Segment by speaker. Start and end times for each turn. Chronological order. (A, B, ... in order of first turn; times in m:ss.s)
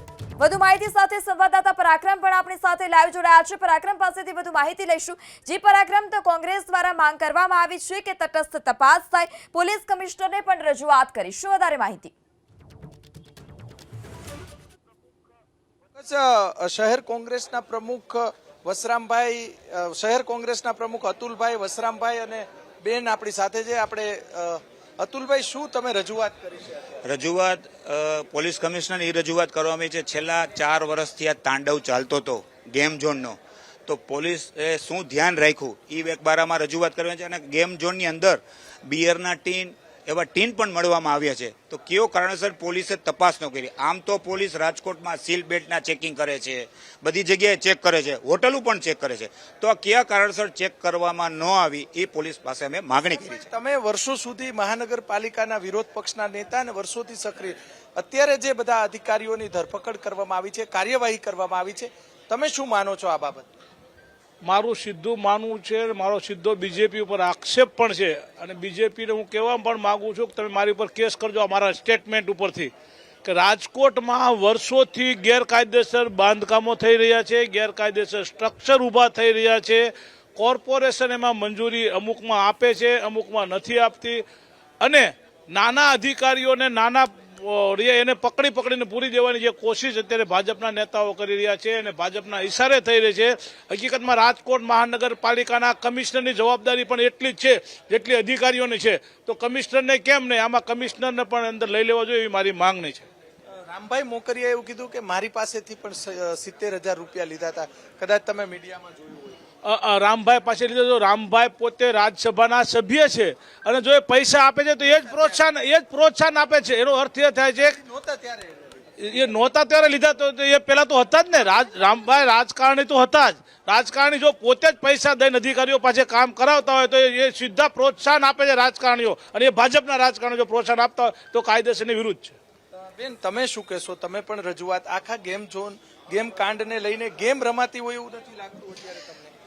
0:00.4-0:12.1 A
0:16.0-0:26.9 B
0:27.0-0:53.4 C
0:53.2-1:03.5 B
1:04.4-1:12.7 D
1:13.2-1:24.2 D
1:24.8-1:43.1 D
1:43.7-1:49.4 B
1:49.6-1:57.8 D
1:54.9-1:55.4 B
1:57.6-1:58.8 B
1:59.0-2:12.4 D
2:13.0-2:19.3 B